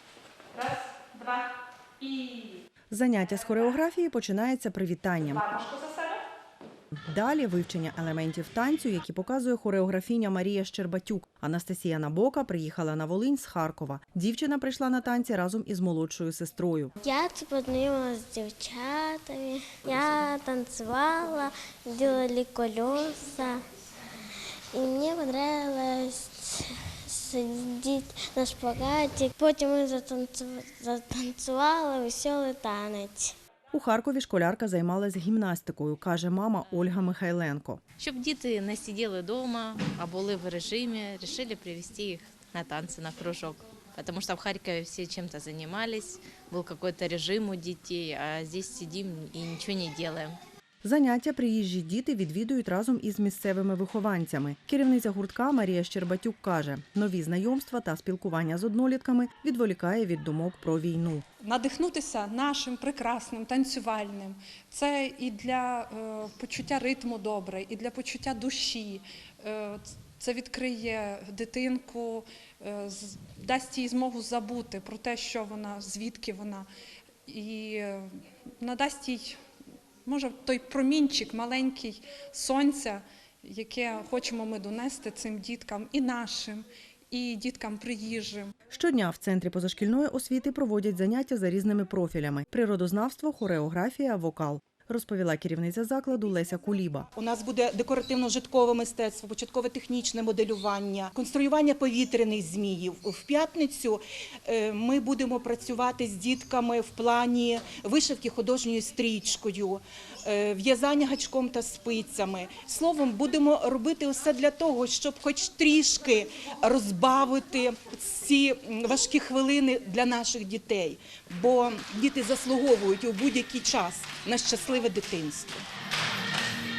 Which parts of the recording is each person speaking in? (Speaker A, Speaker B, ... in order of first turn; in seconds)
Speaker A: 0.5-2.6, 5.3-6.2, 61.4-76.7, 77.3-79.4, 80.0-88.5
Speaker B: 2.9-5.4, 7.1-16.9, 33.7-37.8, 50.8-61.2, 88.7-97.1
Speaker C: 17.0-23.6, 24.7-33.3
Speaker D: 38.0-50.4
Speaker E: 97.1-125.6